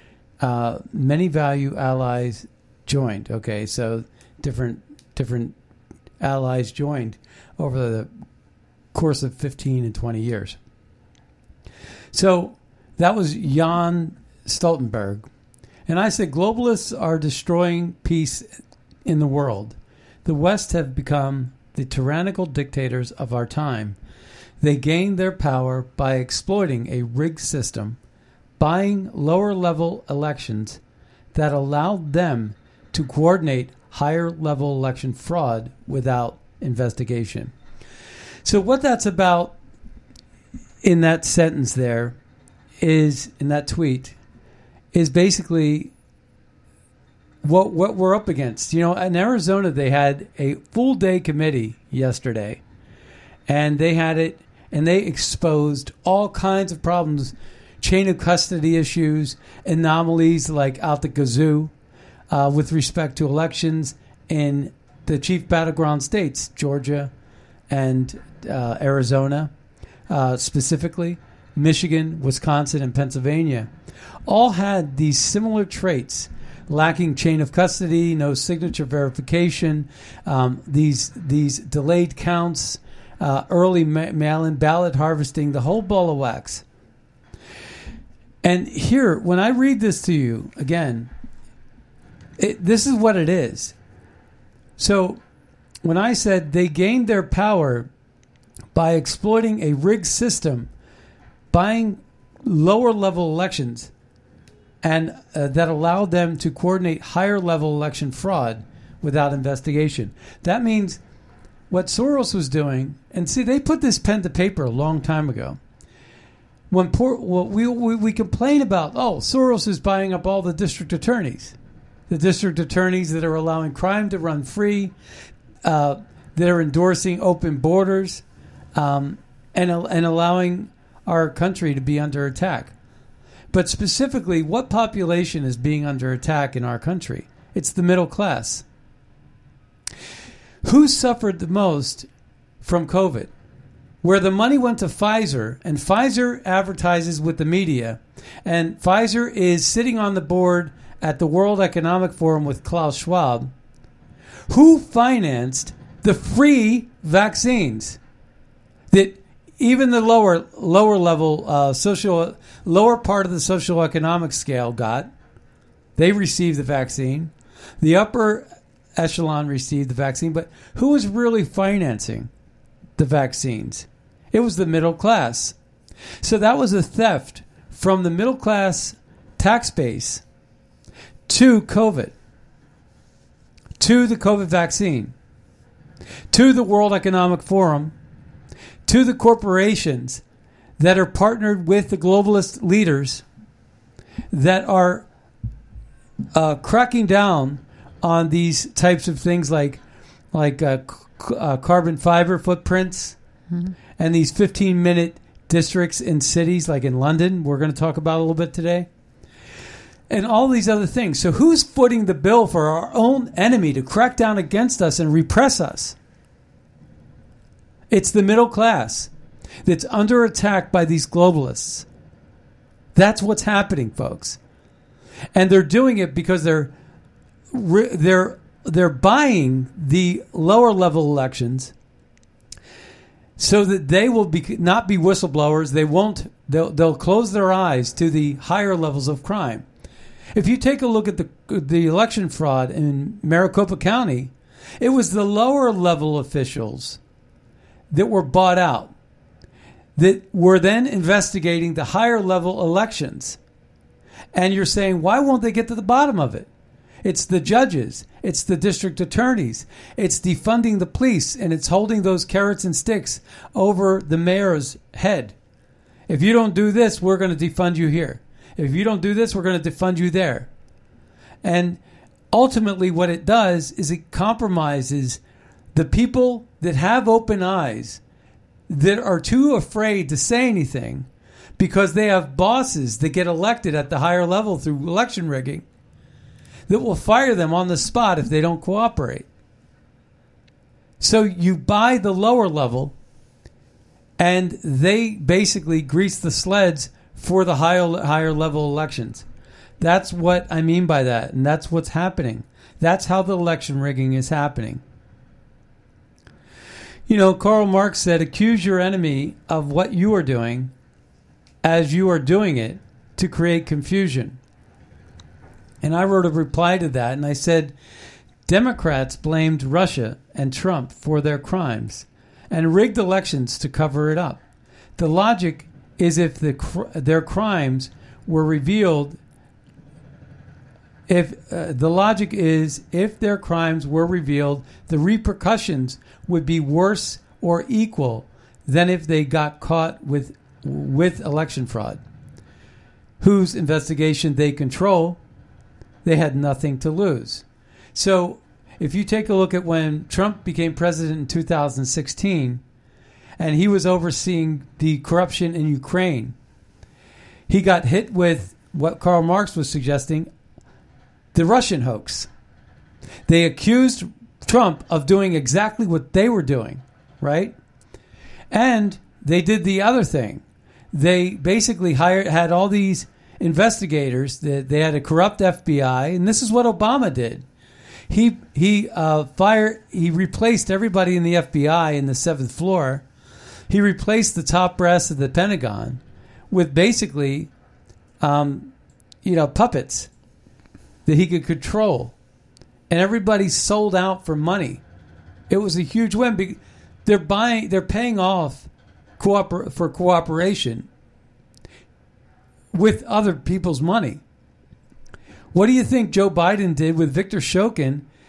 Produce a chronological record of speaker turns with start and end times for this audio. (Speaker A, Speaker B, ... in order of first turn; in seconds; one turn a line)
Speaker A: 0.4-5.5
Speaker A: 6.2-8.1
Speaker A: 8.9-10.6
Speaker A: 12.1-15.3
Speaker A: 15.9-18.5
Speaker A: 19.1-24.0
Speaker A: 24.6-28.0
Speaker A: 28.6-30.8
Speaker A: 31.3-37.5
Speaker A: 38.4-39.6
Speaker A: 40.8-42.2
Speaker A: 42.8-44.2
Speaker A: 44.9-45.9
Speaker A: 47.4-52.6
Speaker A: 53.5-61.7
Speaker A: 62.3-67.1
Speaker A: 67.7-69.5
Speaker A: 70.1-73.7
Speaker A: 74.3-86.6
Speaker A: 88.4-91.1
Speaker A: 92.4-93.8
Speaker A: 94.8-95.2
Speaker A: 95.8-97.9
Speaker A: 98.7-100.7
Speaker A: 101.5-103.9
Speaker A: 104.8-111.0
Speaker A: 111.7-115.6
Speaker A: 116.7-121.6
Speaker A: 122.1-124.9
Speaker A: 125.6-128.2
Speaker A: 128.7-132.7
Speaker A: 133.5-138.7
Speaker A: 140.6-142.1
Speaker A: 142.6-143.3
Speaker A: 144.0-153.5
Speaker A: 154.5-158.0
Speaker A: 158.9-165.1
Speaker A: 166.0-172.3
Speaker A: 173.0-175.6
Speaker A: 176.2-180.2
Speaker A: 181.3-182.1
Speaker A: 183.8-185.1
Speaker A: 186.3-187.9
Speaker A: 188.9-190.2
Speaker A: 190.8-193.2
Speaker A: 194.3-195.1
Speaker A: 196.3-199.8
Speaker A: 200.3-203.2
Speaker A: 204.0-208.9
Speaker A: 210.1-216.0
Speaker A: 217.9-219.1
Speaker A: 219.6-221.9
Speaker A: 222.9-224.4
Speaker A: 225.3-226.7
Speaker A: 227.5-231.7
Speaker A: 233.4-239.7
Speaker A: 240.3-247.0
Speaker A: 247.9-248.9
Speaker A: 250.0-253.4
Speaker A: 254.3-256.5
Speaker A: 257.0-265.4
Speaker A: 266.1-270.5
Speaker A: 271.4-271.8
Speaker A: 272.3-275.2
Speaker A: 275.7-278.0
Speaker A: 278.7-285.6
Speaker A: 286.7-289.3
Speaker A: 291.0-292.9
Speaker A: 294.2-299.3
Speaker A: 299.8-304.8
Speaker A: 307.1-310.7
Speaker A: 311.6-314.4
Speaker A: 315.8-317.7
Speaker A: 318.5-324.4
Speaker A: 325.0-329.2
Speaker A: 331.1-342.0
Speaker A: 343.2-345.2
Speaker A: 346.0-352.6
Speaker A: 353.4-356.4
Speaker A: 357.5-360.3
Speaker A: 361.3-362.3
Speaker A: 363.3-367.6
Speaker A: 368.5-377.4
Speaker A: 378.1-383.1
Speaker A: 383.7-387.5
Speaker A: 388.2-388.7
Speaker A: 389.2-390.1
Speaker A: 391.1-392.1
Speaker A: 392.9-394.8
Speaker A: 395.5-400.9
Speaker A: 402.7-404.2
Speaker A: 405.5-408.1